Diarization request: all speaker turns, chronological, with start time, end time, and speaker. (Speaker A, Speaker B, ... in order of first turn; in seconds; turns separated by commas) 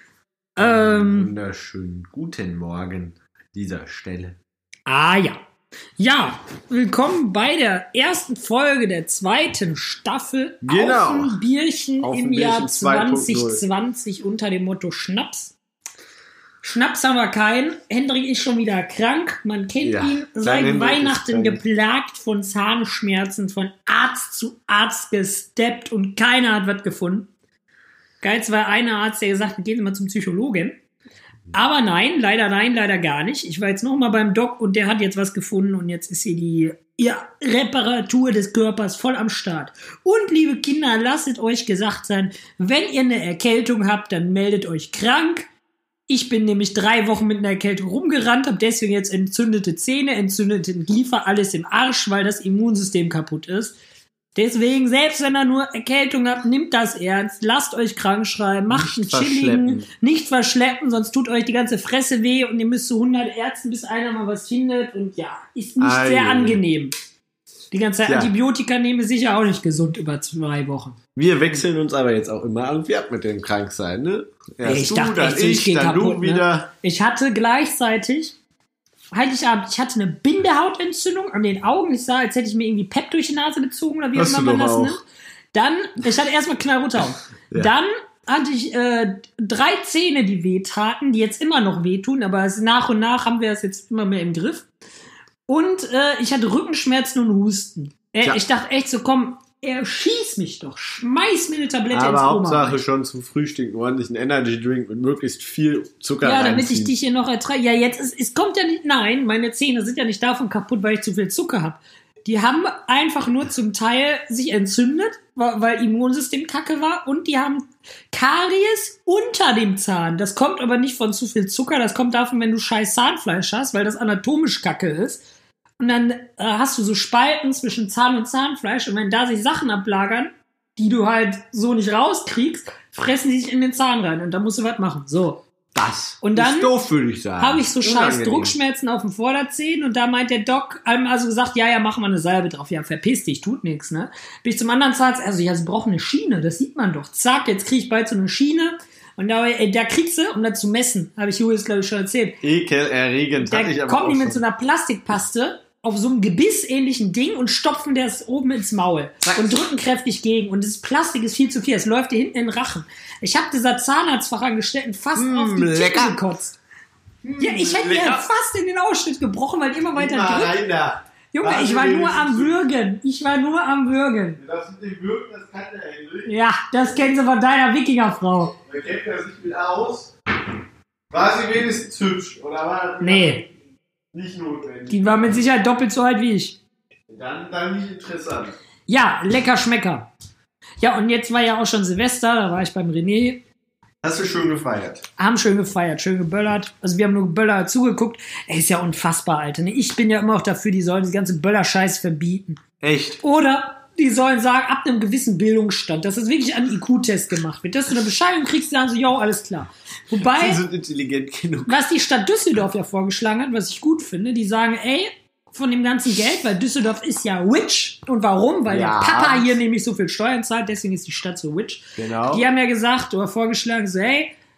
Speaker A: 0.6-1.3, Speaker B: 0.6-4.4, Speaker A: 4.8-5.4, Speaker A: 6.0-15.5, Speaker B: 10.6-11.4, Speaker B: 12.0-13.6, Speaker A: 16.6-27.3, Speaker B: 19.8-21.6, Speaker A: 28.2-30.8, Speaker A: 31.5-45.5, Speaker A: 46.1-53.8, Speaker A: 54.3-66.9, Speaker B: 58.7-59.9, Speaker B: 65.8-66.6, Speaker A: 67.7-71.0, Speaker B: 68.0-68.3, Speaker B: 71.1-76.7, Speaker A: 74.6-78.3, Speaker A: 79.1-94.7, Speaker B: 84.1-85.0, Speaker A: 95.5-102.8, Speaker B: 101.9-107.0, Speaker A: 106.2-125.2, Speaker A: 125.8-135.4, Speaker B: 135.7-138.6, Speaker A: 136.2-136.7, Speaker A: 137.4-152.4, Speaker B: 152.4-154.4, Speaker A: 153.4-166.6, Speaker B: 159.2-159.6, Speaker B: 165.2-166.2, Speaker B: 167.2-168.3, Speaker A: 167.4-170.6, Speaker B: 169.9-172.6, Speaker A: 171.3-174.4, Speaker B: 174.4-176.3, Speaker A: 176.2-178.6, Speaker B: 178.6-180.1, Speaker B: 181.1-183.5, Speaker A: 183.0-183.4, Speaker B: 184.1-185.4, Speaker A: 184.9-186.6, Speaker B: 187.1-188.6, Speaker A: 188.9-190.1, Speaker A: 190.8-193.4, Speaker B: 194.0-195.0, Speaker A: 195.2-202.6, Speaker B: 202.8-203.2, Speaker A: 203.2-210.6, Speaker B: 210.2-211.8, Speaker A: 211.7-224.3, Speaker B: 218.7-219.6, Speaker B: 222.0-222.5